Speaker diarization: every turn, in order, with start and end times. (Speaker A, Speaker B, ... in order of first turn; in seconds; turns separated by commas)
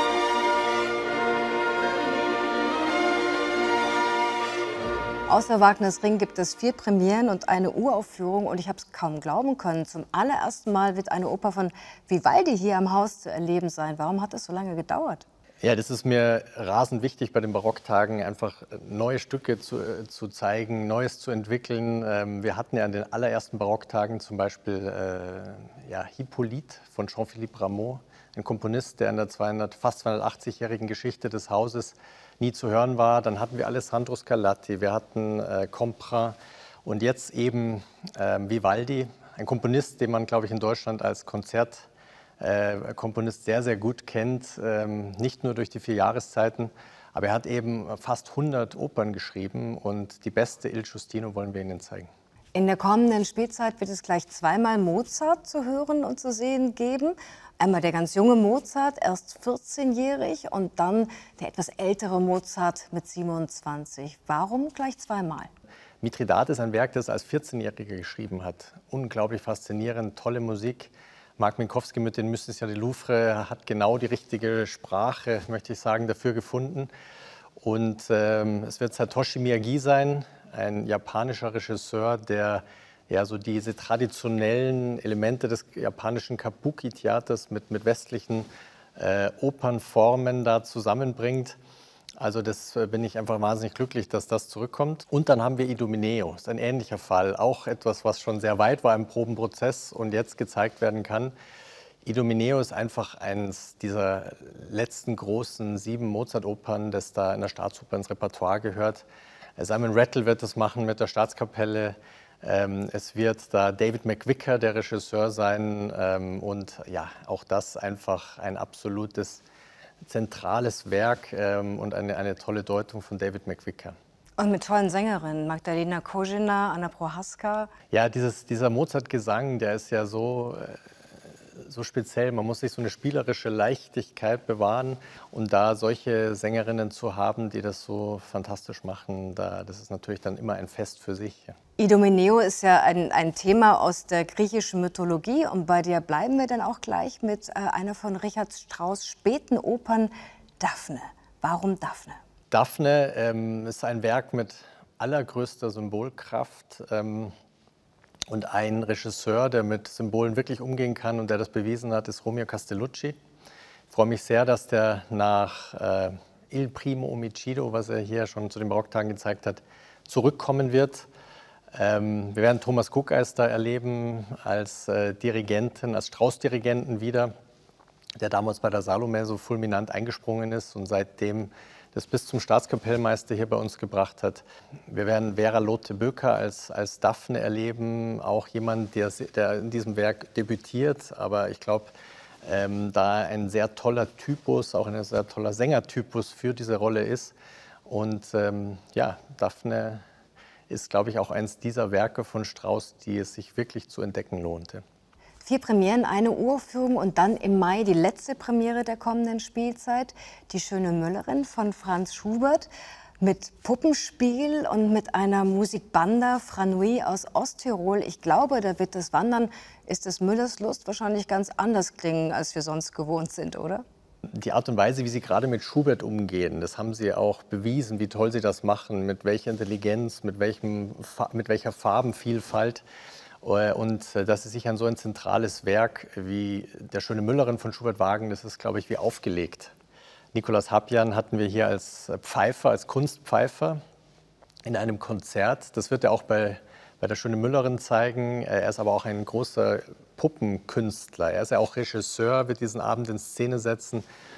Speaker A: 5.3-15.2, Speaker B: 15.6-41.9, Speaker B: 42.4-52.1, Speaker A: 52.5-65.5, Speaker B: 66.0-76.9, Speaker B: 77.6-91.6, Speaker B: 92.2-101.3, Speaker B: 102.0-109.0, Speaker B: 109.6-119.4, Speaker B: 120.0-124.0, Speaker A: 124.4-127.7, Speaker B: 127.9-130.8, Speaker B: 131.5-141.6, Speaker A: 141.8-152.2, Speaker B: 152.5-157.3, Speaker B: 158.3-163.2, Speaker B: 163.9-171.1, Speaker B: 171.7-177.3, Speaker B: 178.2-191.9, Speaker B: 192.4-197.3, Speaker B: 197.8-200.0, Speaker B: 200.7-204.8, Speaker A: 205.4-212.7, Speaker A: 213.2-223.8, Speaker B: 224.3-232.8, Speaker B: 233.4-239.7, Speaker B: 240.3-243.8, Speaker B: 244.6-254.0